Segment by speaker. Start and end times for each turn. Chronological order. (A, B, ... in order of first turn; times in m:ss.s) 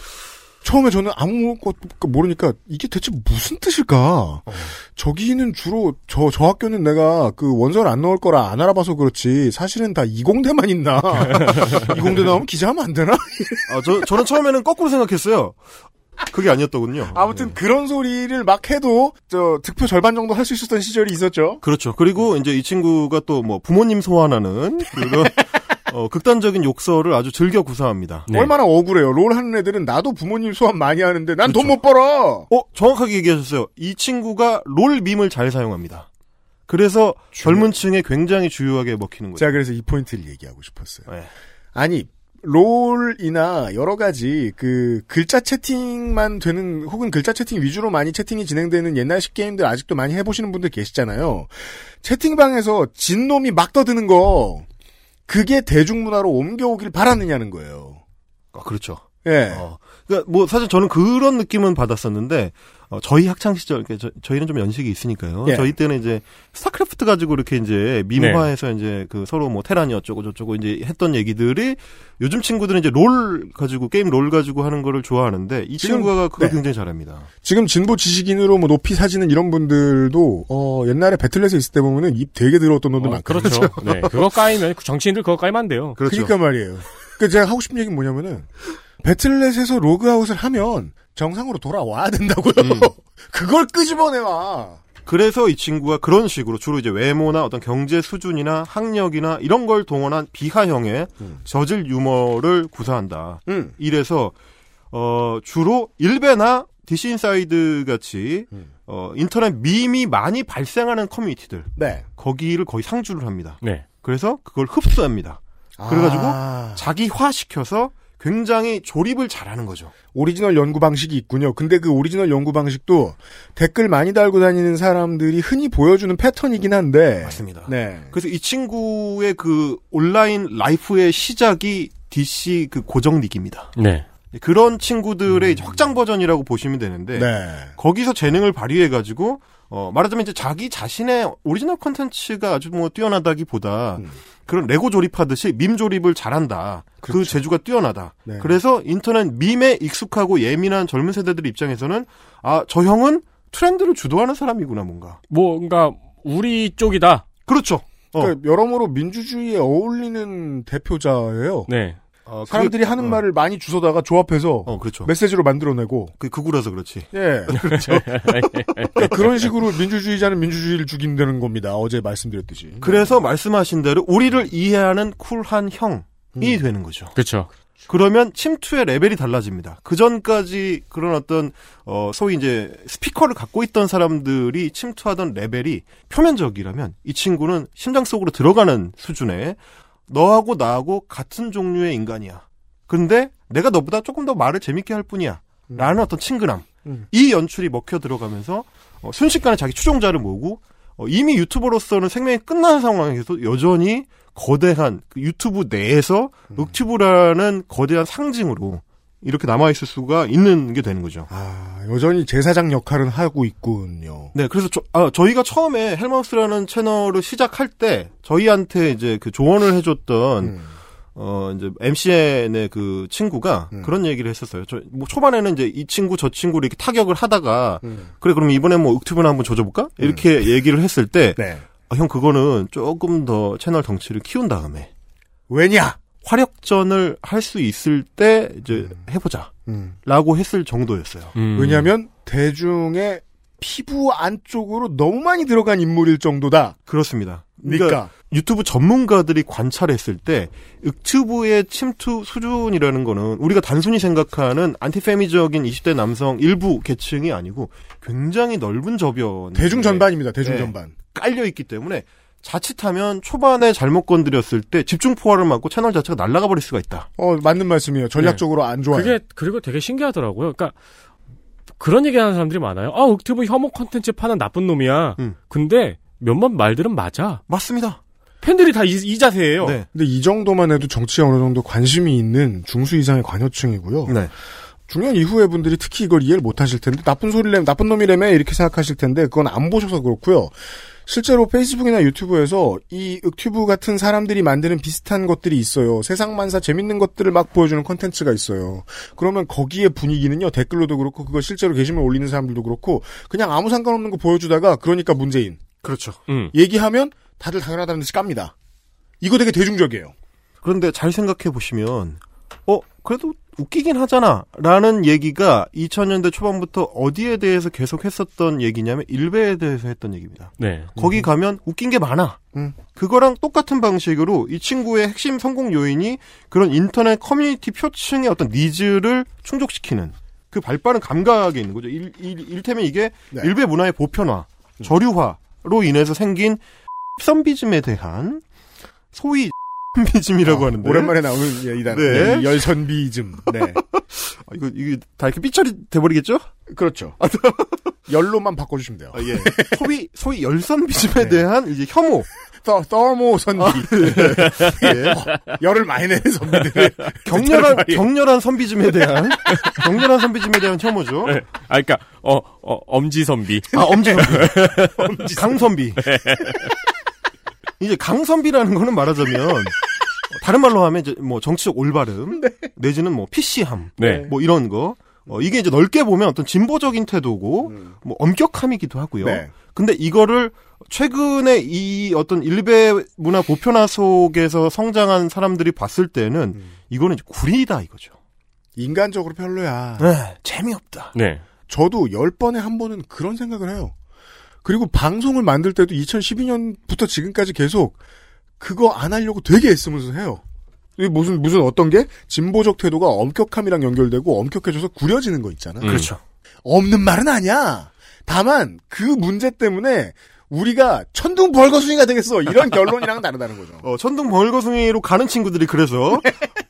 0:00.6-0:13.7 A
0:13.7-0:15.6 B
0:16.3-0:17.4 B
0:17.1-0:21.6 A
0:21.6-0:28.3 B
0:28.3-0:28.5 C
0:28.3-0:32.5 A
0:31.5-0:31.7 B
0:32.5-0:36.1 B
0:36.7-0:39.6 B
0:37.4-0:37.7 A
0:39.4-0:41.1 A
0:41.8-0:54.7 A
0:55.3-0:58.0 A
0:58.5-1:17.3 B
0:59.2-0:59.6 A
1:05.4-1:05.7 A
1:08.2-1:08.5 C
1:15.8-1:16.6 A
1:17.4-1:23.8 A
1:23.0-1:26.0 C
1:23.4-1:23.8 B
1:26.0-1:26.3 B
1:26.1-1:28.5 A
1:29.0-1:34.8 A
1:32.6-1:32.9 C
1:35.1-1:44.3 B
1:43.5-1:43.7 A
1:44.9-1:59.9 B
1:51.8-1:52.1 A
1:55.8-1:56.9 A
2:00.1-2:08.1 A
2:07.2-2:13.7 B
2:13.8-2:14.1 C
2:14.3-2:35.2 B
2:15.3-2:15.7 A
2:17.1-2:17.7 A
2:27.0-2:27.4 A
2:28.3-2:28.6 A
2:35.3-2:37.3 C
2:37.5-2:38.4 B
2:38.2-2:41.7 A
2:41.7-2:42.0 C
2:42.3-2:43.2 B
2:42.5-2:46.1 A
2:44.7-2:45.1 B
2:46.2-2:47.9 B
2:47.1-2:48.1 A
2:47.5-2:49.1 C
2:49.0-2:53.1 A
2:52.8-2:57.1 B
2:56.4-2:56.6 A
2:57.2-2:57.5 C
2:57.9-3:31.3 B
3:15.7-3:16.0 A
3:31.3-3:34.3 A
3:34.3-3:40.6 B
3:41.2-3:54.9 B
3:47.8-3:48.1 A
3:51.4-3:51.6 A
3:55.5-3:56.0 A
3:56.2-3:59.5 B
3:59.7-4:00.0 A
4:00.0-4:01.4 B
4:01.4-4:01.9 C
4:01.5-4:06.8 A
4:06.9-4:27.1 B
4:07.6-4:08.1 A
4:19.6-4:20.9 A
4:27.2-4:29.2 A
4:28.2-4:30.8 C
4:31.8-4:37.4 C
4:37.5-4:38.0 B
4:38.4-4:39.8 C
4:39.6-4:39.9 B
4:39.9-4:44.2 A
4:44.9-5:05.7 A
5:05.8-5:06.2 B
5:06.3-5:06.5 C
5:06.5-5:08.5 A
5:09.2-5:10.1 A
5:10.6-5:22.4 B
5:20.6-5:20.9 C
5:21.0-5:21.3 A
5:22.9-5:36.6 B
5:37.2-5:38.4 B
5:39.1-5:41.2 B
5:40.4-5:43.8 A
5:41.9-5:42.7 B
5:43.8-5:46.5 B
5:46.7-5:47.2 A
5:47.2-5:47.9 B
5:48.1-5:49.9 A
5:49.1-5:52.3 B
5:52.6-5:58.0 A
5:53.6-5:55.2 B
5:54.4-5:54.8 C
5:57.3-6:01.4 B
6:01.2-6:05.1 C
6:03.7-6:04.6 B
6:03.8-6:05.6 A
6:05.4-6:06.0 B
6:06.0-6:06.7 C
6:07.8-6:09.8 B
6:10.4-6:28.2 B
6:12.3-6:12.7 A
6:14.0-6:14.3 C
6:14.0-6:14.3 A
6:17.7-6:17.9 A
6:19.2-6:19.5 A
6:28.8-6:30.1 A
6:30.0-6:31.1 B
6:31.2-6:31.4 C
6:31.7-6:34.0 A
6:34.6-6:38.0 A
6:38.6-6:40.4 A
6:41.0-6:46.0 A
6:45.8-6:46.1 C
6:45.8-6:46.2 B
6:46.6-6:53.8 A
6:53.8-6:56.4 B